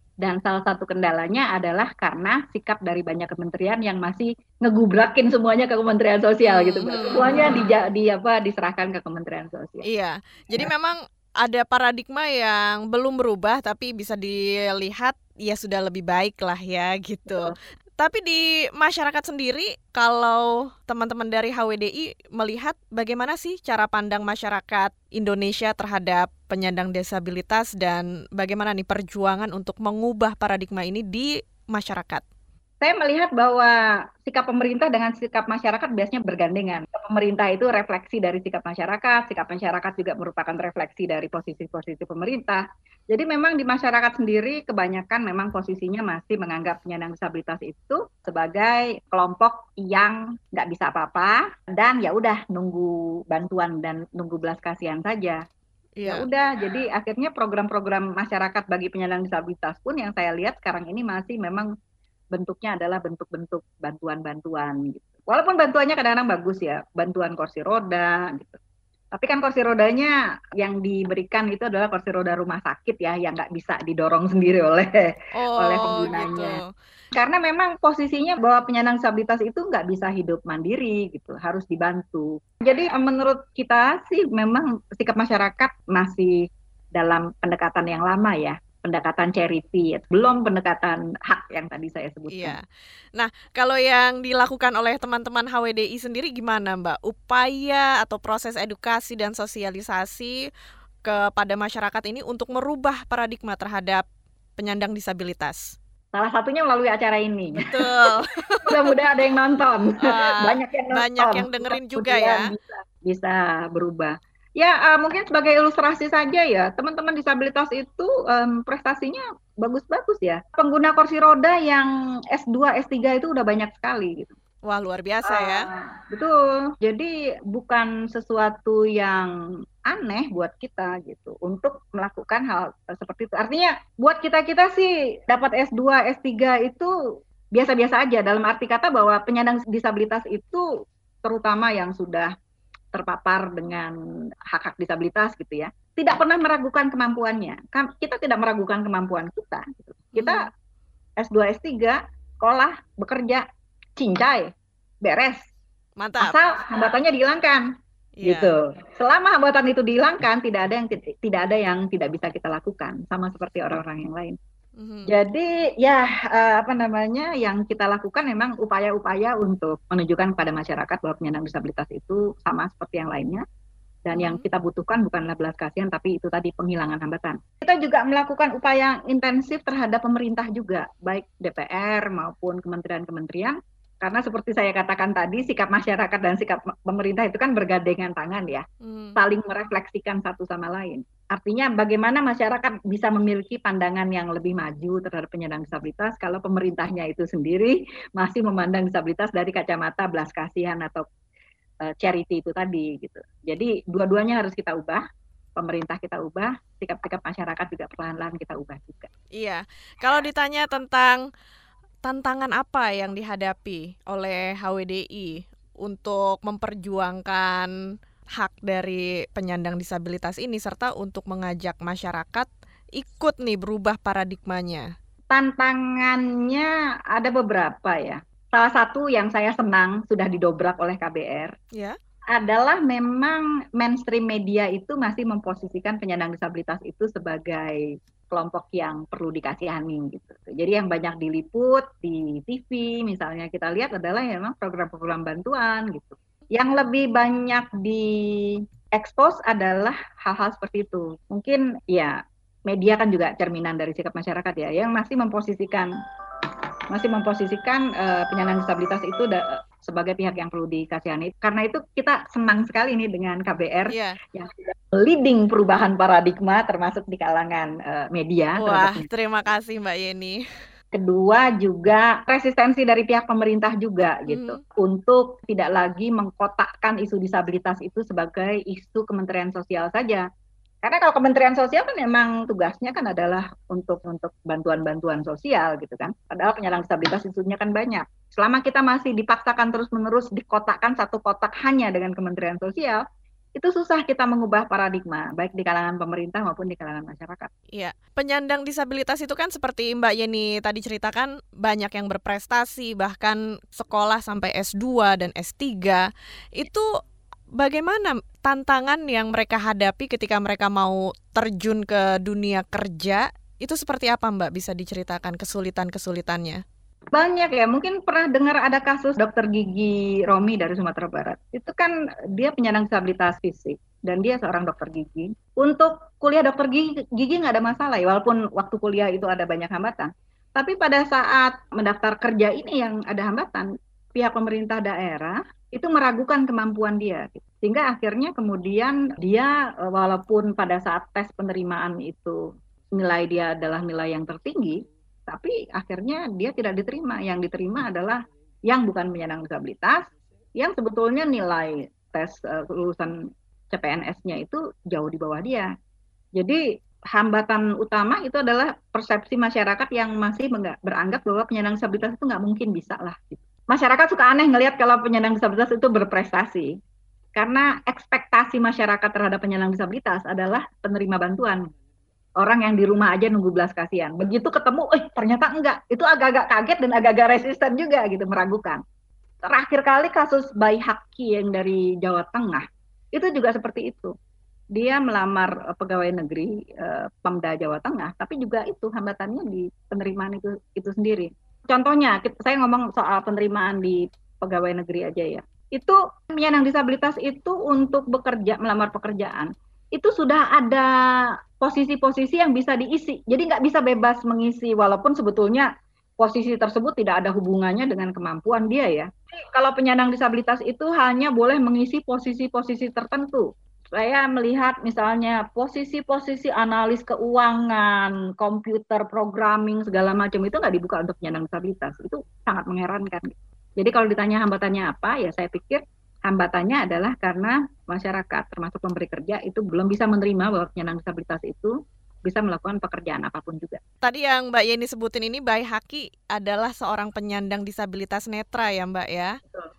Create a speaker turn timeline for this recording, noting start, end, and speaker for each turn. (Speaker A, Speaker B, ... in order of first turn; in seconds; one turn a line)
Speaker A: 0.2-9.8
Speaker B: 6.4-7.4
Speaker B: 9.8-32.2
Speaker A: 17.3-17.5
Speaker A: 32.8-55.4
Speaker B: 56.0-56.2
Speaker A: 56.0-61.7
Speaker A: 62.3-68.6
Speaker A: 69.1-76.6
Speaker B: 75.3-76.7
Speaker A: 77.1-92.5
Speaker B: 92.3-92.6
Speaker B: 93.2-100.5
Speaker B: 101.0-104.0
Speaker B: 104.6-105.8
Speaker A: 106.1-108.1
Speaker B: 107.6-108.8
Speaker A: 108.6-124.3
Speaker B: 110.0-112.4
Speaker B: 124.6-125.7
Speaker A: 125.2-129.3
Speaker A: 129.8-136.9
Speaker A: 137.5-140.7
Speaker A: 141.2-142.3
Speaker A: 142.9-143.9
Speaker A: 144.5-150.5
Speaker B: 150.1-150.5
Speaker A: 151.2-153.4
Speaker A: 154.0-154.5
Speaker A: 155.0-155.5
Speaker B: 156.0-156.4
Speaker A: 156.2-157.7
Speaker B: 158.2-158.5
Speaker A: 158.2-164.4
Speaker B: 164.8-165.1
Speaker A: 165.1-173.4
Speaker A: 174.1-201.1
Speaker B: 174.1-174.4
Speaker B: 188.8-189.2
Speaker A: 201.8-205.0
Speaker A: 205.6-209.1
Speaker B: 209.3-211.2
Speaker B: 212.0-217.7
Speaker B: 218.4-224.9
Speaker A: 225.3-231.5
Speaker A: 232.3-255.9
Speaker A: 256.9-269.1
Speaker B: 263.9-264.2
Speaker B: 268.6-270.4
Speaker A: 270.9-280.2
Speaker B: 274.3-274.6
Speaker A: 280.8-293.0
Speaker A: 293.6-297.5
Speaker B: 297.7-306.9
Speaker B: 307.6-316.6
Speaker A: 317.1-342.4
Speaker A: 342.9-353.2
Speaker A: 353.7-355.7
Speaker A: 356.4-366.8
Speaker A: 367.4-371.7
Speaker A: 372.4-378.8
Speaker A: 379.4-384.1
Speaker A: 384.7-433.8
Speaker B: 434.0-439.4